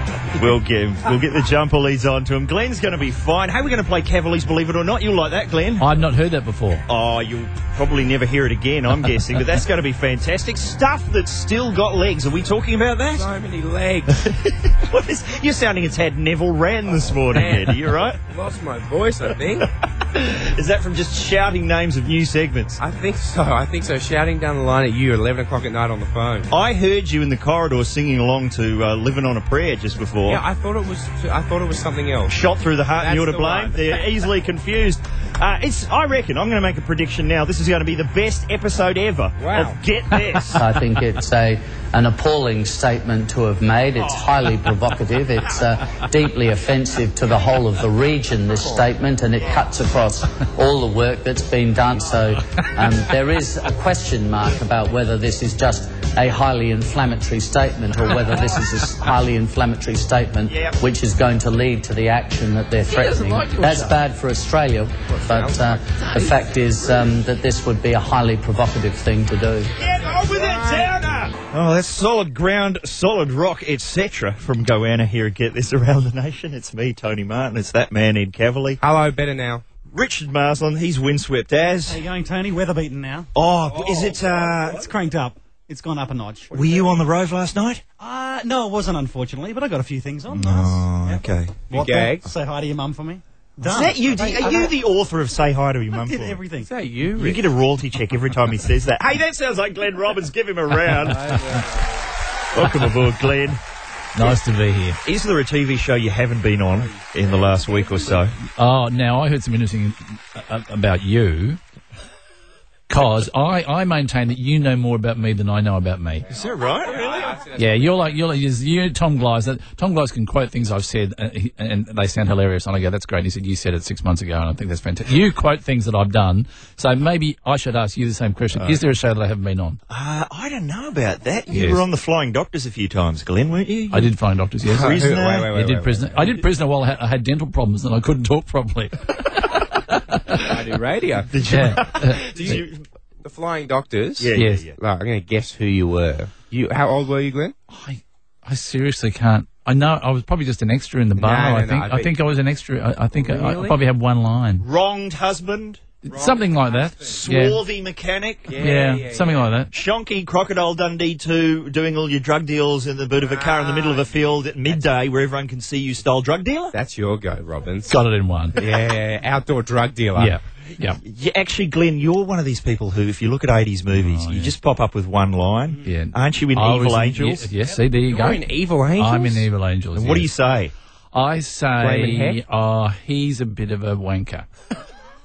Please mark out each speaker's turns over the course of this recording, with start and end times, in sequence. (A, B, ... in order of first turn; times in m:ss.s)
0:00.3-0:05.9 A
0:05.8-0:06.8 B
0:06.9-0:13.3 A
0:13.2-0:14.3 C
0:14.2-0:18.2 A
0:16.9-0:19.7 C
0:20.0-0:22.8 A
0:22.8-0:26.5 C
0:26.5-0:30.4 A
0:30.3-0:32.4 C
0:32.3-0:40.6 A
0:33.0-0:34.1 C
0:39.4-0:39.8 C
0:40.5-1:09.7 D
1:00.5-1:00.8 A
1:02.9-1:04.0 B
1:05.1-1:05.8 C
1:06.0-1:06.4 B
1:06.7-1:07.1 C
1:09.8-1:18.8 A
1:10.1-1:11.2 C
1:18.8-1:19.6 C
1:19.9-1:22.0 A
1:21.9-1:23.3 E
1:23.3-1:24.9 A
1:23.8-1:24.3 C
1:24.7-1:27.0 E
1:26.5-1:27.8 A
1:28.0-1:34.4 E
1:30.3-1:31.7 A
1:31.7-1:32.3 C
1:33.6-1:36.4 A
1:34.3-1:34.7 C
1:36.0-1:36.7 E
1:36.6-1:37.4 C
1:37.2-1:41.4 A
1:41.1-1:42.0 C
1:42.5-1:43.6 A
1:44.2-1:45.0 B
1:45.0-1:48.4 A
1:47.0-1:48.0 C
1:48.5-1:51.6 B
1:52.9-1:56.2 B
1:56.3-1:58.1 C
1:56.3-1:57.4 A
1:57.6-2:09.8 B
2:08.6-2:08.8 A
2:09.9-2:14.2 A
2:11.5-2:11.8 B
2:13.9-2:20.5 B
2:14.7-2:16.1 C
2:14.7-2:15.5 A
2:20.4-2:21.4 C
2:21.3-2:22.8 A
2:21.4-2:22.6 B
2:22.3-2:22.6 C
2:23.2-2:27.6 C
2:24.2-2:24.8 A
2:24.3-2:24.7 B
2:27.7-2:34.6 B
2:31.2-2:32.1 C
2:33.1-2:33.8 C
2:34.6-2:35.8 A
2:36.1-2:37.6 B
2:36.1-2:37.2 C
2:37.0-2:38.7 A
2:38.5-2:39.5 C
2:38.6-2:39.7 B
2:39.7-2:46.8 A
2:43.2-2:44.8 C
2:46.7-2:48.0 C
2:47.9-2:48.7 B
2:48.6-2:50.4 C
2:50.2-2:51.0 B
2:51.0-2:57.5 A
2:53.9-2:54.5 B
2:55.8-2:58.4 B
2:58.0-2:59.5 C
2:59.0-3:00.3 B
3:00.0-3:00.7 A
3:01.1-3:04.5 B
3:01.8-3:02.4 C